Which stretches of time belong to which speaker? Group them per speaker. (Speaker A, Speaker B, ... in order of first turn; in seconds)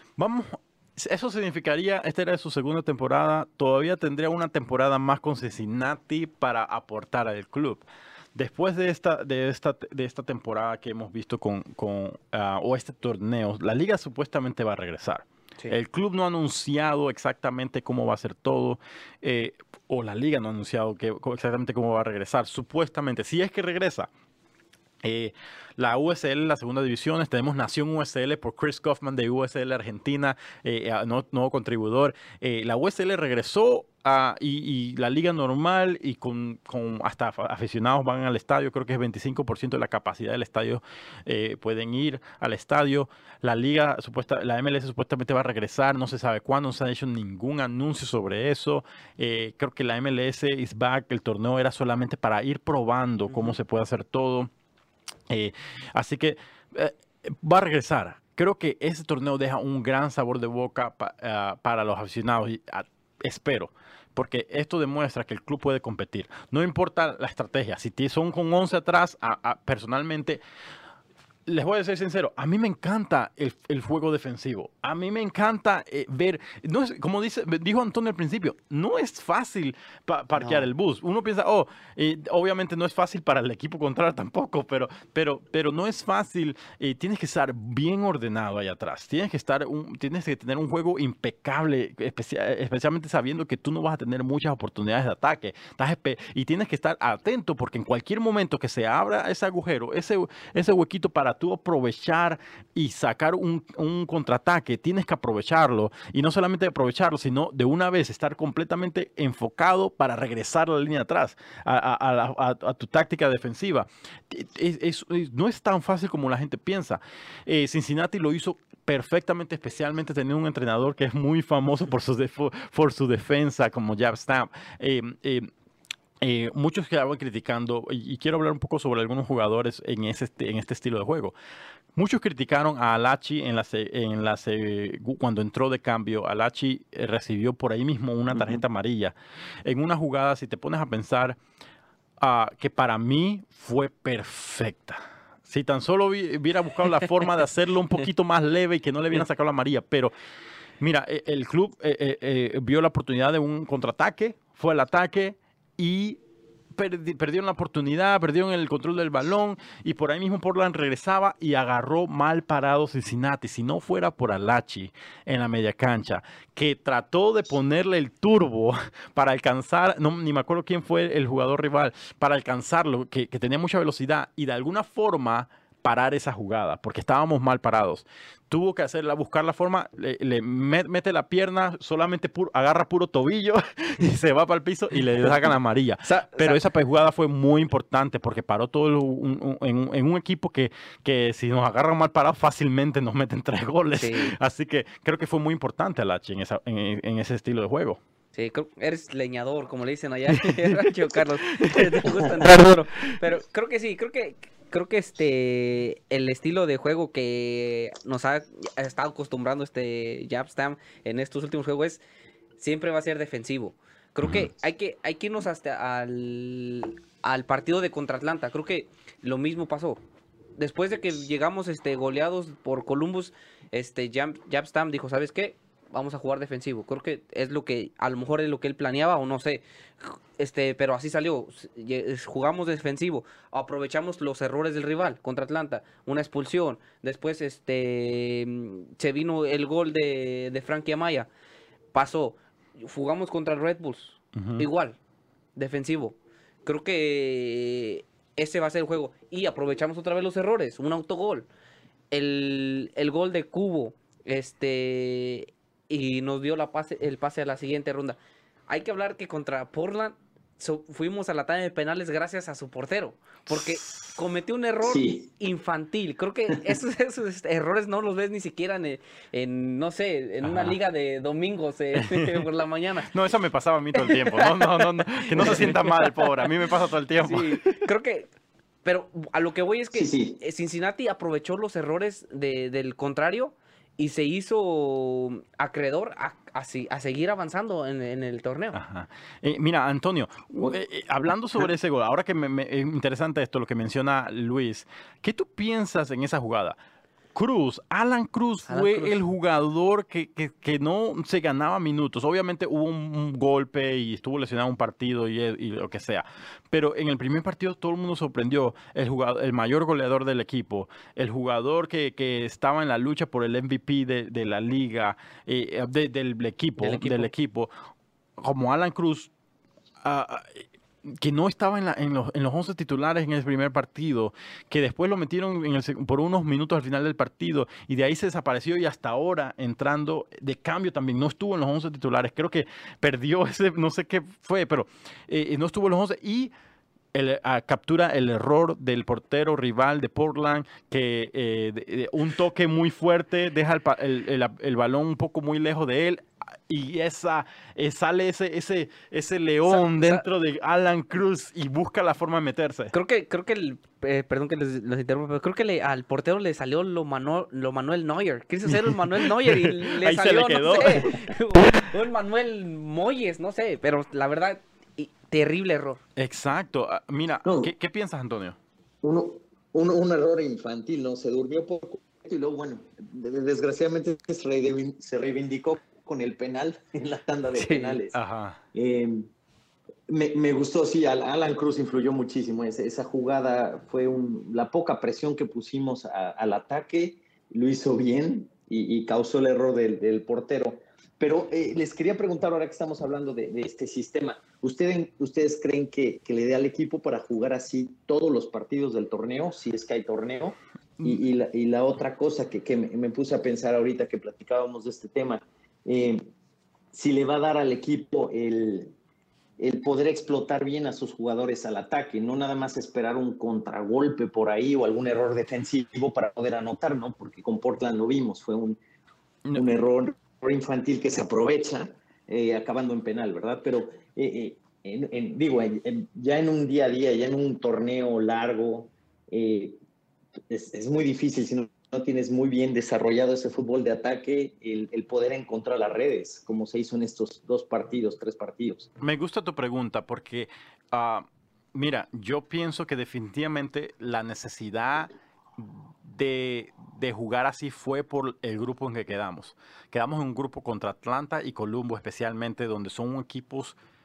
Speaker A: 0.2-24.1, 25.0-54.5, 55.3-70.4, 71.5-125.5, 126.2-131.3, 131.9-139.1, 139.6-141.4, 142.2-150.1, 150.8-156.2, 156.7-198.0, 200.4-202.7, 214.2-214.5, 244.3-244.7, 263.5-264.1, 270.4-270.8, 271.9-272.4, 273.1-277.8, 288.7-296.8, 297.3-317.7, 318.4-319.3, 320.0-336.5, 337.1-352.9, 358.6-361.1, 366.1-368.6, 378.1-378.6, 439.0-453.8
Speaker B: 53.3-53.5, 186.0-186.6, 194.0-194.3, 198.3-212.0, 212.6-220.0, 220.6-241.3, 241.9-245.0, 245.6-251.5, 252.1-258.2, 258.7-273.1, 273.9-278.3, 278.8-288.8, 298.7-299.2, 316.8-317.3, 349.7-350.2, 352.9-366.0, 377.6-378.0
Speaker C: 138.3-138.6, 264.8-265.3, 279.9-280.4, 367.4-367.7, 369.0-378.2, 378.7-379.3, 380.1-406.3, 406.9-408.9, 409.6-418.8, 419.5-429.8, 430.5-438.9